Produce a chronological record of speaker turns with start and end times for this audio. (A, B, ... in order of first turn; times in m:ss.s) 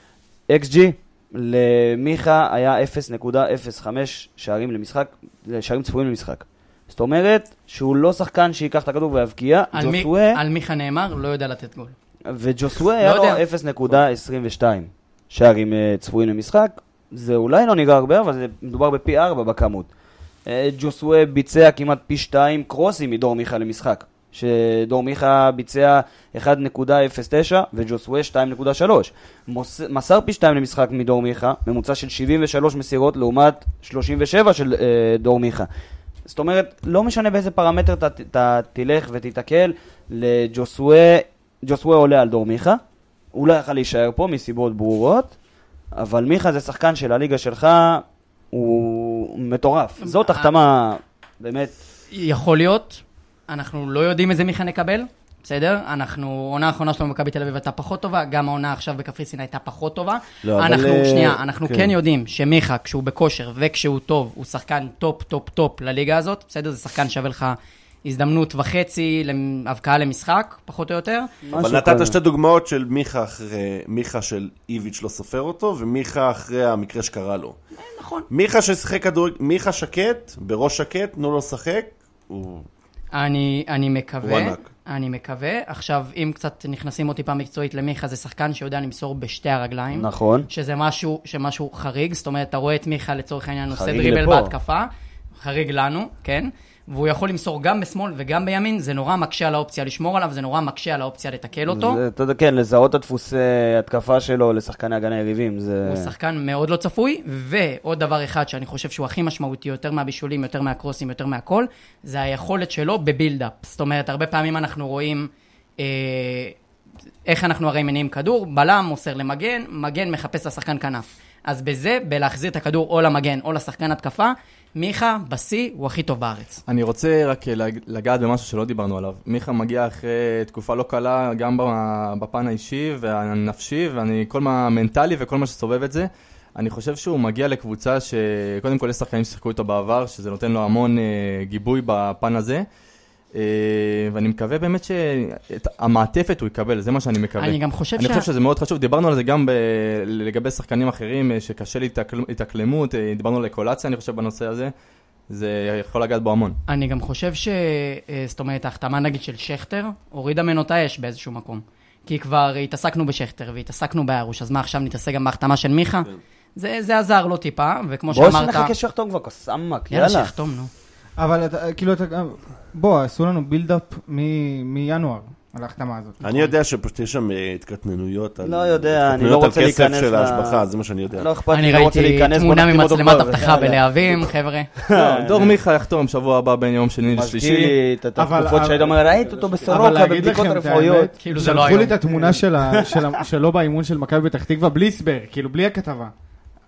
0:00.5-0:10.4 A
0:09.7-0:12.0 B
0:12.3-0:19.9 A
0:13.0-0:13.4 B
0:20.5-0:35.7 A
0:36.3-0:42.8 A
0:43.3-0:45.4 A
0:46.0-0:51.8 A
0:50.0-0:50.5 B
0:52.1-1:11.3 B
1:00.4-1:01.9 C
1:11.5-1:12.2 A
1:11.5-1:17.6 C
1:17.8-1:18.3 B
1:18.3-1:22.7 C
1:23.1-1:34.9 B
1:24.2-1:24.7 C
1:29.9-1:30.5 A
1:33.7-1:34.5 A
1:35.4-1:42.0 B
1:41.7-1:46.1 A
1:45.8-1:56.6 B
1:57.3-2:06.6 B
2:06.7-2:22.6 D
2:23.3-2:34.7 D
2:27.4-2:28.3 B
2:35.3-2:36.6 D
2:36.7-2:48.7 B
2:48.1-2:50.3 A
2:49.9-2:50.7 B
2:51.2-2:56.2 E
2:56.2-3:01.3 C
2:56.3-2:56.5 B
2:58.4-3:05.6 A
3:01.5-3:04.7 B
3:04.9-3:07.8 D
3:07.1-3:11.1 A
3:08.2-3:09.0 E
3:09.0-3:09.8 C
3:09.7-3:16.1 E
3:11.2-3:12.0 B
3:12.1-3:13.1 A